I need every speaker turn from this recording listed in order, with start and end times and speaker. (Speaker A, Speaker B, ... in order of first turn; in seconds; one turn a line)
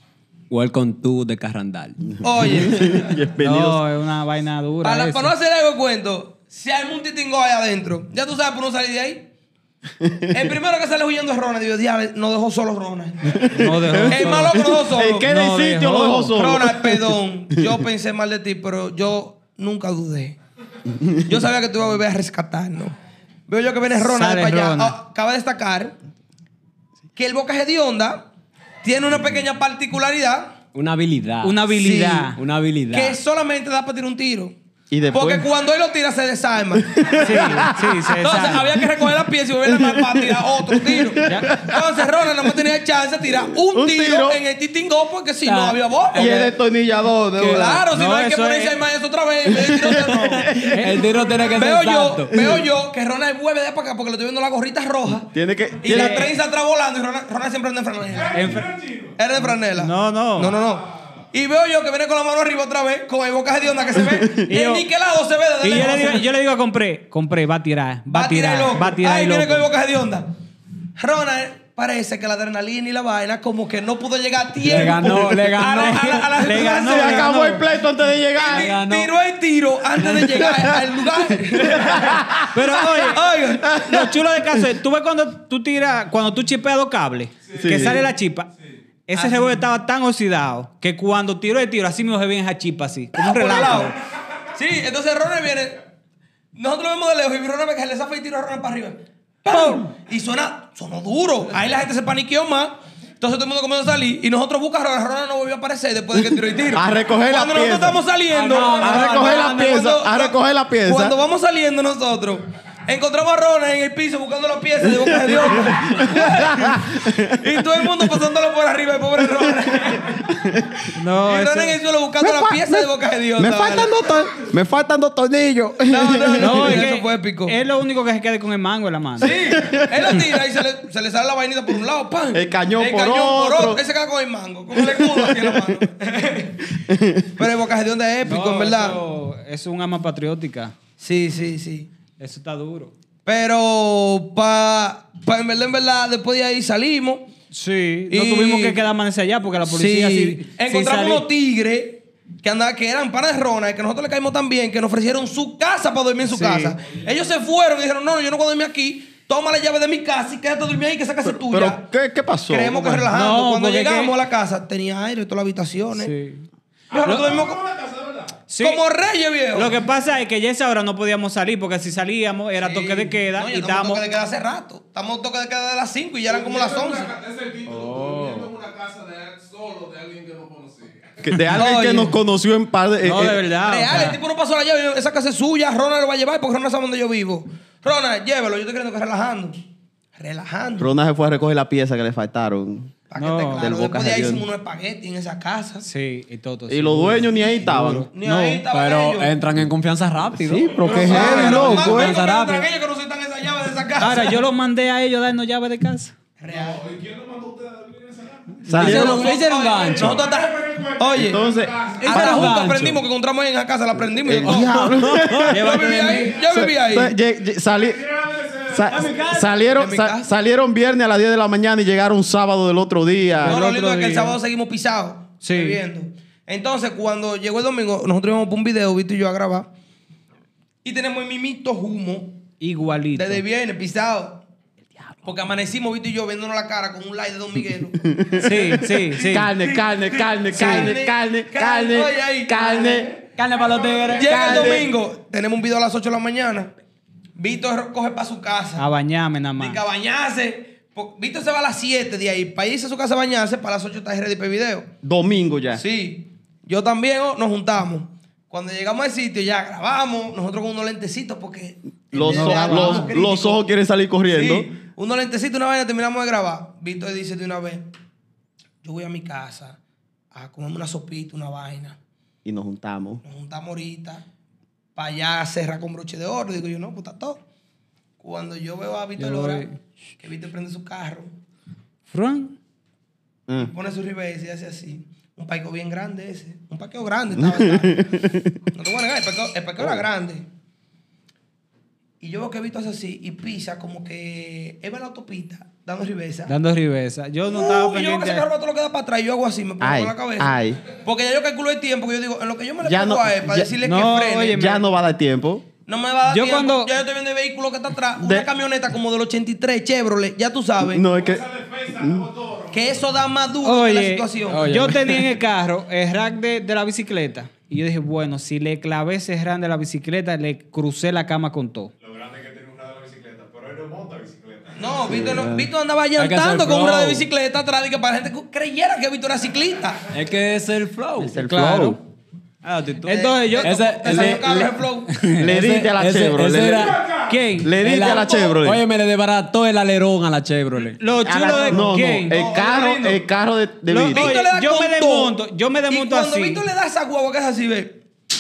Speaker A: 0.5-2.2
Speaker B: 2.2-3.2
Speaker C: 2.3-3.8
Speaker D: 3.4-5.3
Speaker B: 4.8-9.3
Speaker B: 10.3-13.5
Speaker C: 13.3-17.8
Speaker D: 13.5-16.3
Speaker B: 14.0-15.3
Speaker B: 16.2-20.4
Speaker B: 21.2-22.9
Speaker B: 23.5-25.9
Speaker D: 24.0-25.0
Speaker B: 27.1-28.3
Speaker B: 28.8-30.6
Speaker A: 30.7-31.6
Speaker D: 31.4-32.4
Speaker B: 31.7-32.3
Speaker A: 32.3-33.2
Speaker B: 32.9-34.5
Speaker C: 34.9-35.5
Speaker B: 35.1-46.5
Speaker C: 36.8-38.1
Speaker D: 37.2-38.7
Speaker C: 39.6-42.5
Speaker C: 43.5-44.4
Speaker A: 45.4-46.5
Speaker C: 46.1-47.9
Speaker B: 47.4-50.5
Speaker D: 47.9-48.8
Speaker C: 49.5-50.8
Speaker A: 49.6-52.5
Speaker D: 50.6-51.0
Speaker E: 51.2-51.5
Speaker B: 51.4-55.3
Speaker C: 55.3-56.3
Speaker B: 55.8-58.6
Speaker D: 55.8-56.3
Speaker E: 58.1-59.2
Speaker D: 58.3-58.7
Speaker B: 59.2-66.2
Speaker D: 59.4-60.6
Speaker E: 60.5-61.0
Speaker C: 64.0-64.4
Speaker D: 64.5-64.9
Speaker D: 65.6-69.7
Speaker B: 68.1-70.3
Speaker B: 71.0-77.3
Speaker A: 74.6-76.3
Speaker D: 76.4-77.7
Speaker C: 76.7-78.7
Speaker B: 78.3-84.1
Speaker A: 78.4-79.1
Speaker A: 80.0-80.6
Speaker C: 80.4-82.7
Speaker D: 82.5-88.5
Speaker C: 83.6-84.1
Speaker E: 87.5-87.8
Speaker C: 87.5-88.1
Speaker D: 89.1-93.9
Speaker B: 89.1-89.6
Speaker B: 93.2-94.0
Speaker B: 94.5-95.8
Speaker B: 96.5-120.3
Speaker D: 99.5-99.8
Speaker C: 106.7-108.0
Speaker A: 108.3-109.9
Speaker C: 108.7-111.2
Speaker C: 114.8-118.2
Speaker C: 119.5-120.9
Speaker D: 120.9-121.8
Speaker B: 121.2-123.9
Speaker C: 122.2-126.9
Speaker B: 125.9-127.5
Speaker D: 126.4-129.4
Speaker B: 129.2-136.7
Speaker C: 129.3-130.4
Speaker C: 132.3-133.8
Speaker C: 134.8-135.8
Speaker C: 136.7-137.4
Speaker B: 137.4-139.0
Speaker D: 138.2-140.7
Speaker B: 141.0-141.9
Speaker D: 142.2-142.9
Speaker B: 143.2-147.3
Speaker D: 147.5-151.2
Speaker B: 148.1-148.8
Speaker B: 149.7-161.8
Speaker D: 156.2-156.8
Speaker C: 161.2-163.0
Speaker B: 162.5-166.1
Speaker D: 162.7-164.2
Speaker D: 165.9-166.5
Speaker B: 166.9-167.6
Speaker E: 166.9-168.4
Speaker D: 167.0-167.4
Speaker D: 168.5-168.8
Speaker B: 168.6-169.8
Speaker D: 169.5-174.1
Speaker B: 172.6-177.1
Speaker E: 176.3-181.4
Speaker A: 177.7-178.5
Speaker C: 181.2-183.5
Speaker B: 181.5-182.2
Speaker D: 183.0-184.2
Speaker B: 183.2-189.6
Speaker B: 190.2-190.9
Speaker C: 190.8-192.9
Speaker B: 193.1-195.8
Speaker D: 193.2-193.7
Speaker C: 193.5-194.5
Speaker D: 195.8-198.6
Speaker C: 196.7-198.1
Speaker B: 197.3-199.3
Speaker A: 198.7-202.7
Speaker C: 200.4-202.2
Speaker E: 200.6-201.4
Speaker B: 200.8-204.4
Speaker D: 204.0-206.1
Speaker B: 206.4-206.8
Speaker E: 206.5-212.4
Speaker C: 208.7-209.3
Speaker D: 208.7-209.1
Speaker B: 208.7-211.4
Speaker A: 208.7-210.3
Speaker C: 211.2-211.8
Speaker A: 212.0-213.0
Speaker B: 212.0-217.2
Speaker C: 214.2-215.6
Speaker A: 214.4-215.6
Speaker D: 215.5-216.4
Speaker E: 216.0-216.4
Speaker C: 216.5-218.0
Speaker E: 217.7-219.4
Speaker C: 218.7-223.6
Speaker A: 218.9-219.6
Speaker B: 219.7-220.3
Speaker B: 223.4-229.7
Speaker D: 223.4-224.4
Speaker D: 225.4-225.8
Speaker B: 230.8-232.4
Speaker D: 232.6-233.4
Speaker B: 233.1-234.4
Speaker B: 235.2-243.2
Speaker C: 238.0-243.1
Speaker D: 238.4-239.5
Speaker D: 240.5-240.9
Speaker A: 243.4-244.9
Speaker E: 243.4-244.3
Speaker B: 244.1-246.7
Speaker C: 244.3-244.9
Speaker B: 247.4-248.8
Speaker D: 248.8-249.8
Speaker B: 249.6-254.9
Speaker C: 255.0-255.8
Speaker B: 255.7-263.6
Speaker C: 262.1-264.7
Speaker D: 262.2-263.2
Speaker B: 264.3-267.9
Speaker B: 268.8-269.8
Speaker B: 270.3-272.0
Speaker C: 272.4-273.2
Speaker B: 273.2-274.2
Speaker B: 274.9-277.4
Speaker B: 278.2-279.6
Speaker D: 279.2-279.8
Speaker B: 280.2-281.3
Speaker D: 282.1-282.6
Speaker B: 283.6-290.5
Speaker C: 287.4-288.6
Speaker B: 292.2-296.5
Speaker D: 296.5-298.5
Speaker B: 297.5-304.6
Speaker C: 299.8-300.8
Speaker C: 302.8-303.7
Speaker D: 303.8-304.9
Speaker C: 304.5-305.7
Speaker B: 305.9-311.1
Speaker D: 306.3-306.9
Speaker C: 308.2-308.5
Speaker C: 310.8-311.4
Speaker E: 311.1-313.0
Speaker C: 312.0-312.3
Speaker B: 312.7-314.7
Speaker D: 313.6-321.9
Speaker A: 314.5-315.3
Speaker E: 322.0-325.2
Speaker B: 324.8-330.0
Speaker C: 325.1-325.7
Speaker A: 325.3-325.6
Speaker A: 326.2-327.3
Speaker A: 330.1-331.4
Speaker C: 331.2-332.0
Speaker D: 331.4-332.0
Speaker A: 332.6-337.0
Speaker D: 333.0-334.5
Speaker B: 333.1-335.2
Speaker C: 334.1-334.6
Speaker C: 335.4-337.0
Speaker E: 336.7-337.4
Speaker D: 337.3-337.7
Speaker C: 337.6-338.8
Speaker A: 337.8-341.0
Speaker B: 338.0-338.5
Speaker D: 341.0-342.4
Speaker B: 341.3-343.2
Speaker C: 341.3-344.4
Speaker D: 343.9-346.6
Speaker B: 344.1-345.4
Speaker B: 345.9-348.1